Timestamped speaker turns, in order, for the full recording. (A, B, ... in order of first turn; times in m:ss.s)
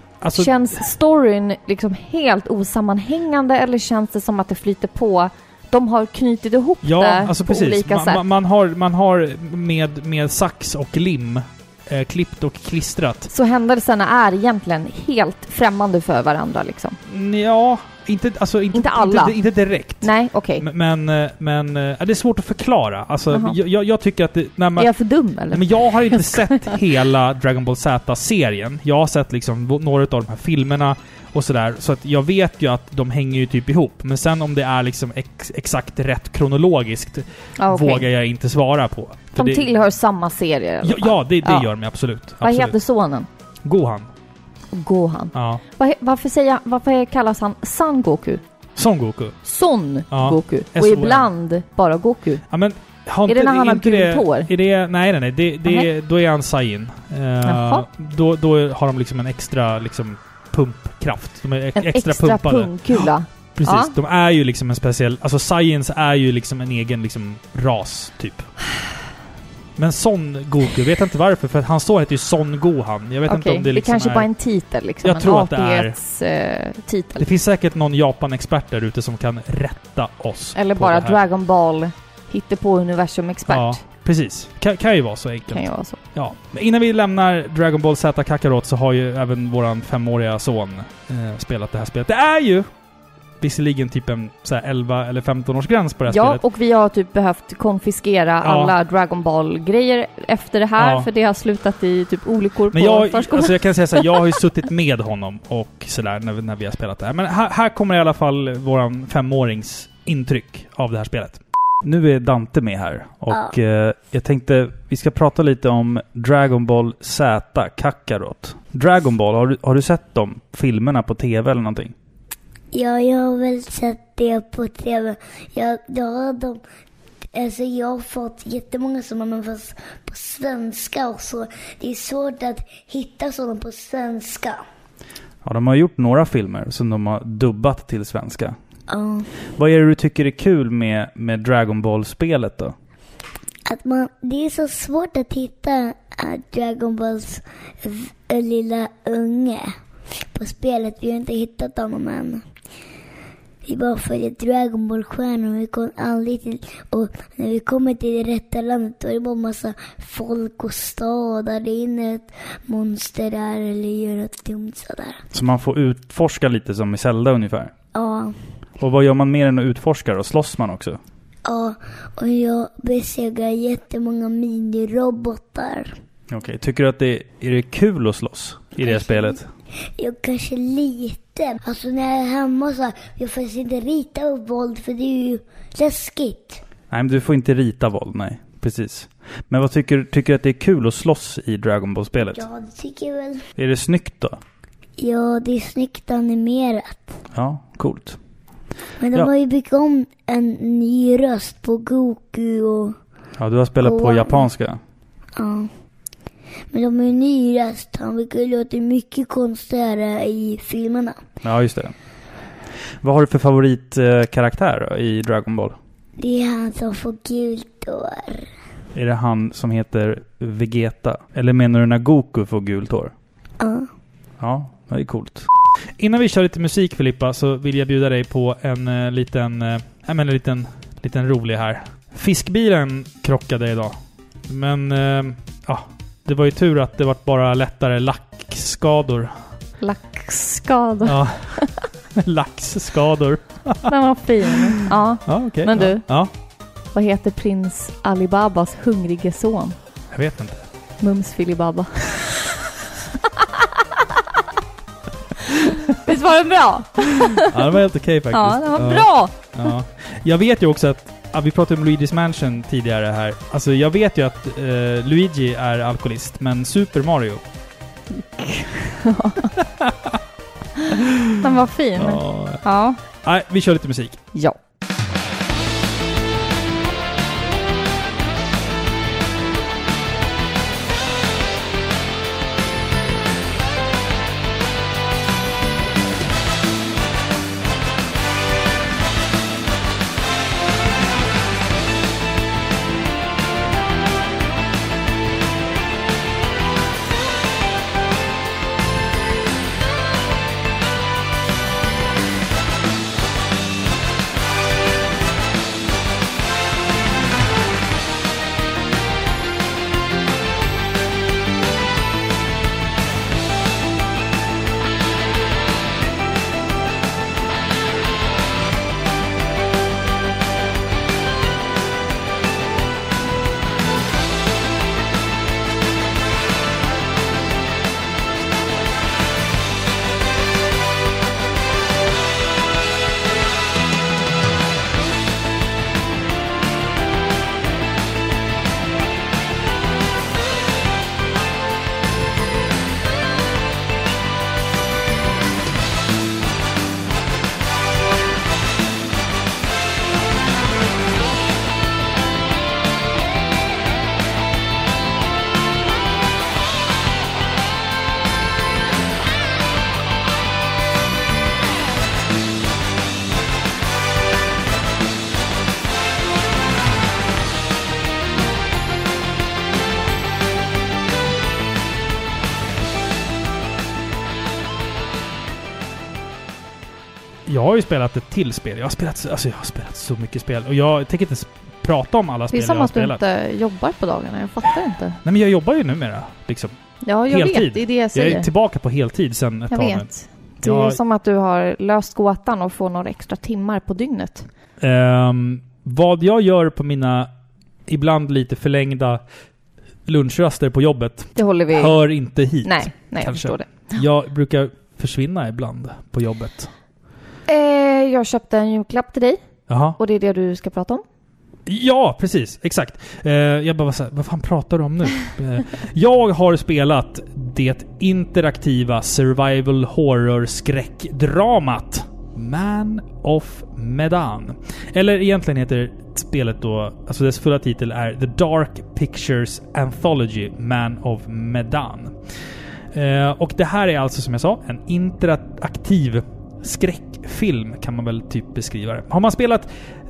0:00.2-0:00.8 A
0:00.3-0:08.2 B
0:06.8-0:13.3 A
0:13.3-0:17.0 B
0:17.1-0:24.9 A
0:18.7-0:19.4 B
0:20.0-0:20.6 B
0:23.3-0:23.6 B
0:24.8-0:26.8 B
0:25.5-0:39.7 A
0:37.6-0:38.0 B
0:39.4-0:41.7 B
0:40.8-0:42.8 A
0:42.4-0:43.3 B
0:43.6-0:44.1 A
0:44.7-0:48.4 B
0:45.3-0:45.6 A
0:48.8-0:49.4 A
0:49.4-0:52.4 B
0:50.1-0:51.3 A
0:52.5-1:08.5 A
0:53.2-0:54.5 B
0:57.4-0:57.8 B
1:01.8-1:03.9 B
1:09.8-1:14.3 A
1:13.3-1:17.3 B
1:15.0-1:15.9 A
1:17.2-1:21.2 A
1:20.5-1:23.8 B
1:23.5-1:32.6 A
1:25.5-1:26.0 B
1:33.4-1:36.4 A
1:36.1-1:44.2 B
1:38.4-1:38.7 A
1:40.8-1:41.1 A
1:42.7-2:01.9 A
2:02.7-2:06.6 C
2:07.3-2:14.6 C
2:15.4-2:18.6 A
2:18.9-2:19.3 C
2:19.6-2:22.7 A
2:23.7-2:29.8 C
2:30.3-2:32.4 C
2:33.6-2:45.2 C
2:45.3-2:47.7 A
2:47.9-2:48.4 C
2:48.8-2:51.0 A
2:51.4-2:56.0 C
2:56.3-2:59.5 A
2:58.8-2:59.4 C
3:00.0-3:06.6 C
3:06.9-3:12.4 A
3:12.2-3:13.4 C
3:13.6-3:14.4 A
3:15.0-3:17.1 C
3:17.3-3:18.2 A
3:19.0-3:22.9 C
3:23.4-3:24.8 A
3:23.8-3:24.4 C
3:25.4-3:25.7 C
3:26.7-3:31.2 C
3:31.4-3:31.9 A
3:33.0-3:35.8 A
3:36.2-3:38.5 C
3:38.9-3:43.1 A
3:43.6-3:43.9 C
3:44.4-3:54.0 A
3:54.5-3:59.4 A
3:59.8-4:01.7 B
4:01.0-4:06.3 A
4:03.8-4:06.1 B
4:06.9-4:09.8 B
4:10.1-4:10.6 A
4:11.0-4:12.4 B
4:13.6-4:14.0 B
4:15.5-4:16.0 A
4:15.9-4:17.6 B
4:17.2-4:27.4 A
4:18.3-4:19.7 B
4:28.2-4:29.5 B
4:29.6-4:30.2 A
4:31.0-4:31.4 A
4:31.4-4:33.0 B
4:32.0-4:34.2 A
6:17.5-6:23.2 A
6:22.5-6:25.2 B
6:25.2-6:26.7 A
6:27.0-6:28.5 B
6:27.3-6:30.1 A
6:29.7-6:34.5 B
6:30.6-6:31.0 A
6:34.8-6:37.3 A
6:37.9-6:39.2 A
6:40.0-6:46.7 A
6:41.3-6:42.0 B
6:42.6-6:44.0 B
6:47.5-6:49.4 B
6:49.7-6:50.0 A
6:50.0-6:51.0 B
6:51.6-7:12.2 A
7:12.9-7:19.7 A